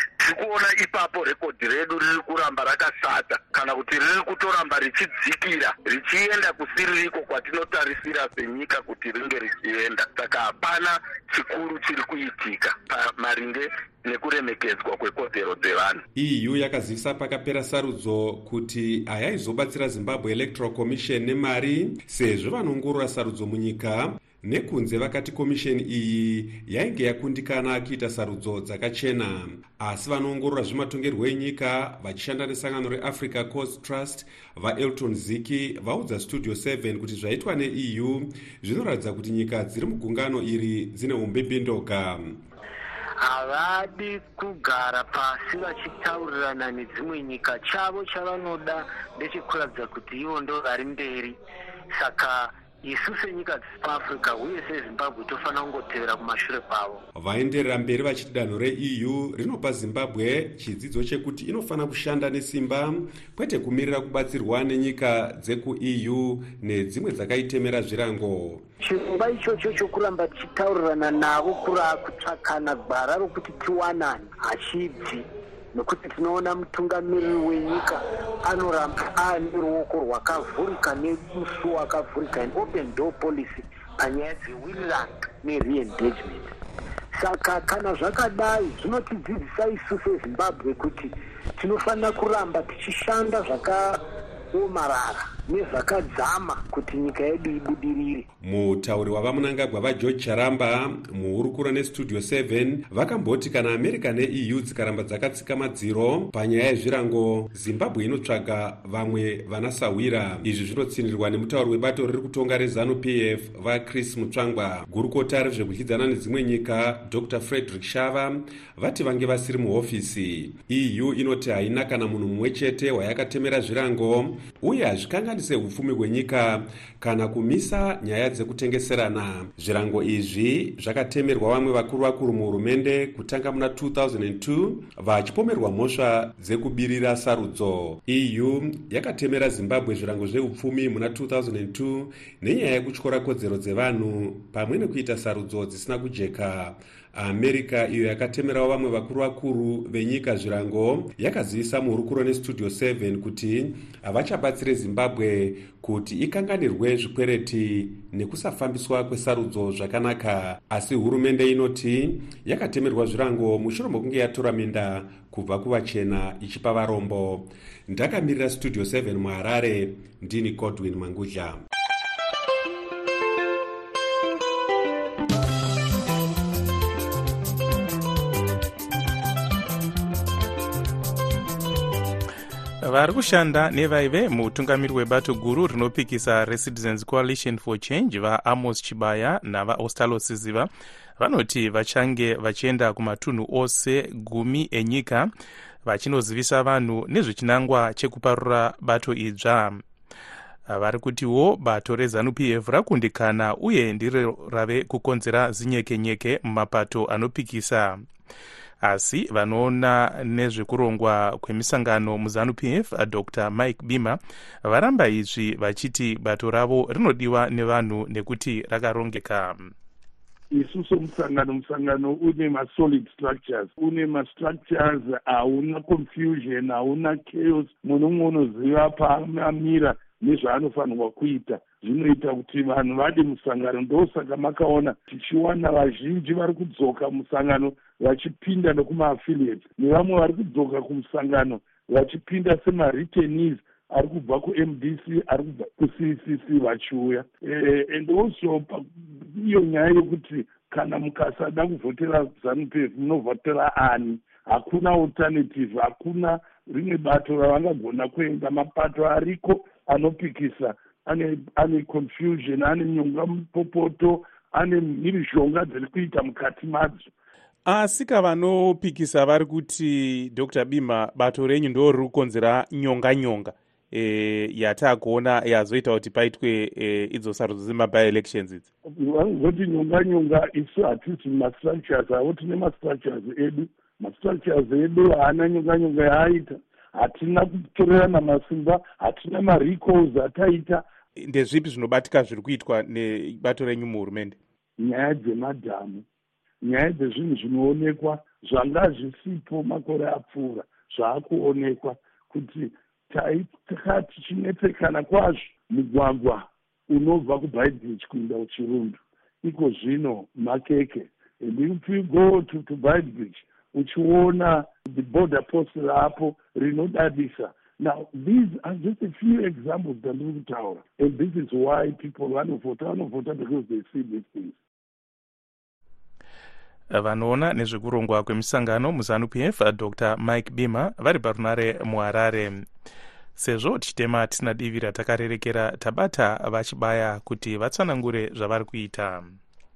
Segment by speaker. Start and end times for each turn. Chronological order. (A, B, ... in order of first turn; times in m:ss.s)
0:00.2-0:16.0 A
0:16.2-0:42.4 B
0:43.2-0:51.4 C
0:51.9-0:57.0 C
0:57.2-1:08.7 B
1:08.8-1:26.5 C
1:27.1-1:34.0 C
1:34.5-1:38.2 C
1:38.4-2:51.6 B
3:02.8-3:15.3 D
3:15.8-3:19.8 D
3:20.7-3:28.0 D
3:28.8-3:39.7 D
3:40.5-4:27.1 E
4:27.7-4:38.7 D
4:38.9-4:50.8 E
4:51.2-4:54.4 D
4:54.8-4:56.0 E
4:56.6-5:24.6 E
5:26.9-5:32.7 D
5:33.4-5:39.4 D